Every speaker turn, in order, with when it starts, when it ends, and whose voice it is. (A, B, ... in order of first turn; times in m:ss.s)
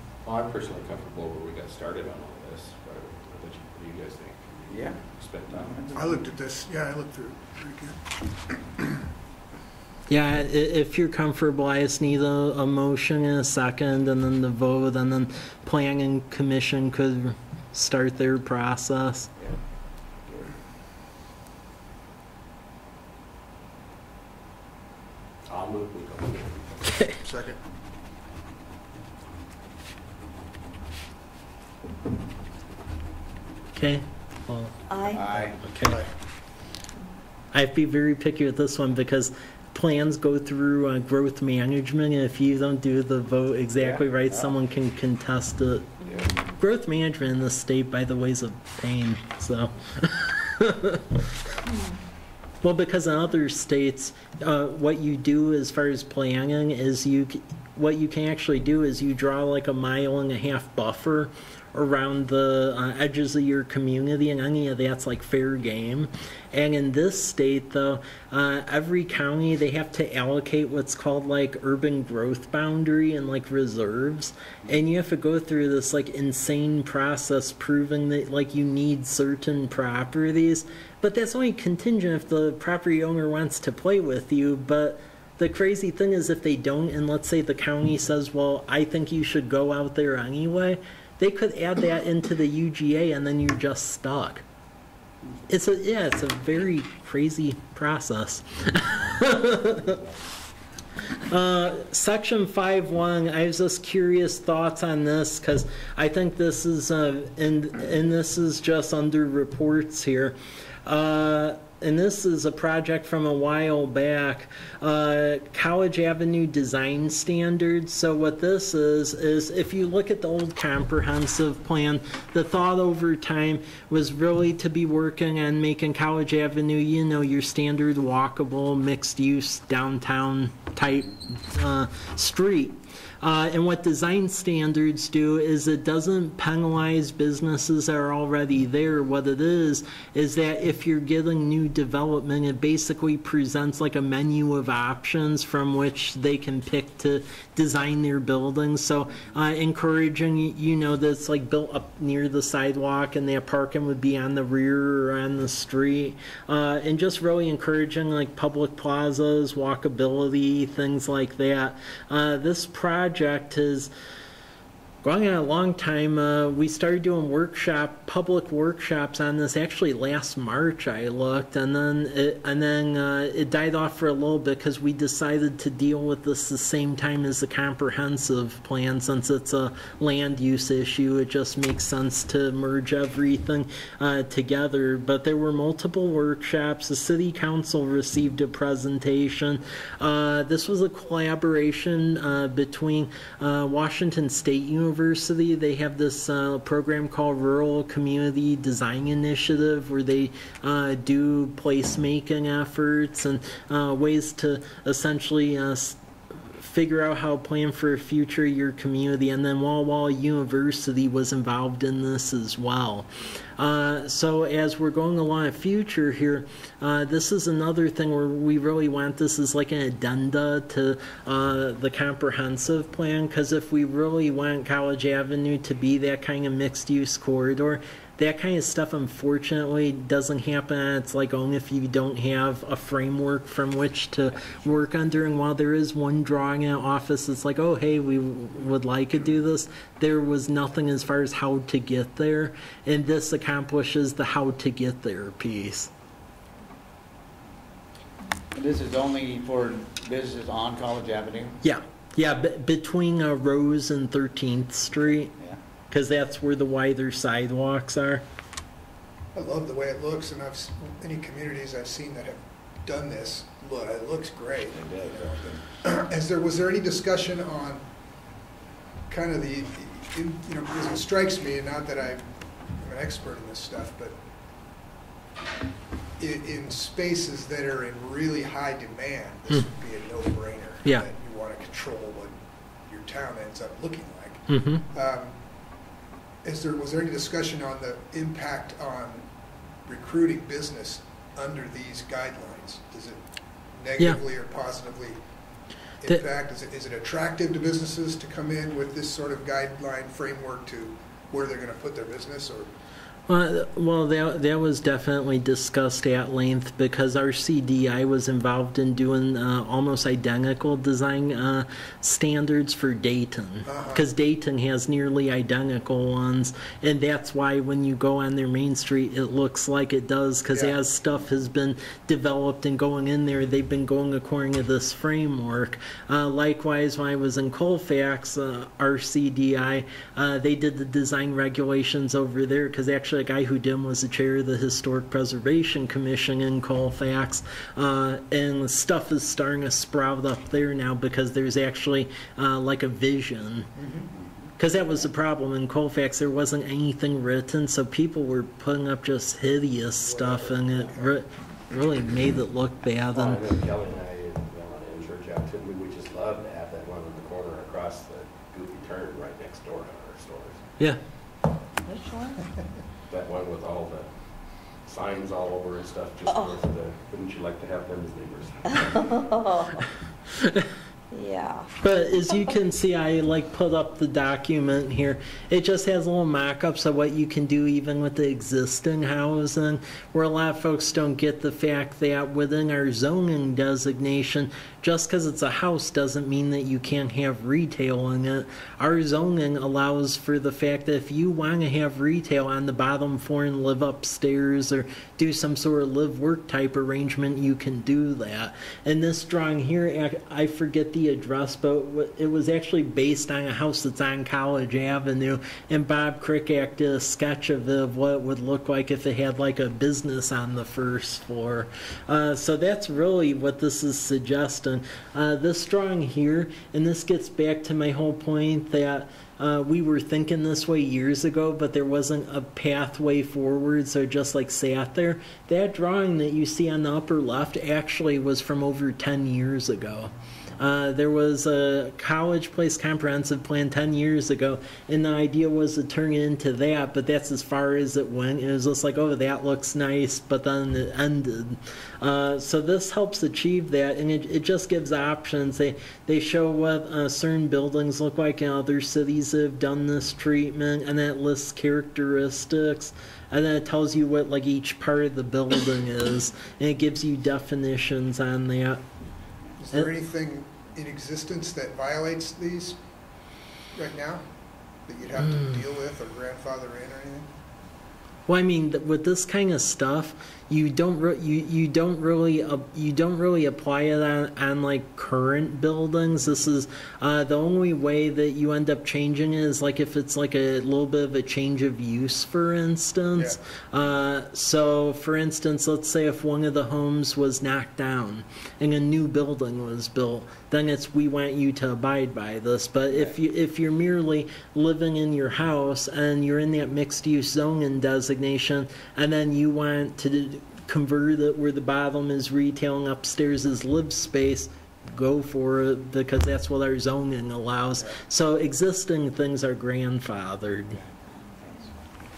0:00.2-0:05.9 A
0:04.7-0:06.2 B
0:06.0-0:08.8 C
0:10.1-0:19.3 D
0:20.2-0:20.6 B
0:25.5-0:26.9 A
0:26.9-0:27.1 D
0:27.2-0:27.6 C
0:33.8-0:34.7 D
0:34.9-0:35.4 E
0:35.1-0:35.7 B
0:35.6-0:36.0 D
0:35.8-0:36.1 C
0:37.5-0:46.0 D
0:43.8-0:44.6 B
0:46.0-0:46.4 B
0:46.6-0:51.3 D
0:51.7-0:52.0 E
0:52.6-1:34.4 D
1:35.5-1:40.0 D
1:41.3-2:43.9 D
2:45.0-3:26.0 D
3:26.6-4:05.9 D
4:08.5-4:11.6 B
4:11.6-4:15.3 D
4:15.4-4:15.6 B
4:15.9-4:18.2 D
4:19.4-4:24.8 C
4:24.7-4:25.6 B
4:25.8-4:27.8 C
4:29.1-4:34.2 C
4:36.2-4:42.4 C
4:42.9-4:45.4 C
4:44.5-4:44.8 D
4:46.4-4:49.3 C
4:49.9-4:53.2 C
4:53.8-4:55.2 C
4:56.0-5:02.7 C
5:03.3-5:43.7 D
5:13.7-5:14.1 C
5:43.8-5:44.1 C
5:44.2-5:44.5 B
5:44.6-5:53.4 D
5:50.1-5:51.2 C
5:53.1-6:00.7 A
6:01.8-6:02.5 E
6:03.1-6:09.2 A
6:06.3-6:06.6 E
6:08.7-6:09.8 E
6:10.4-6:10.7 D
6:11.1-6:11.7 E
6:11.8-7:38.8 D
7:39.6-7:42.8 C
7:43.8-7:44.3 C
7:44.8-7:47.3 C
7:48.3-8:30.8 D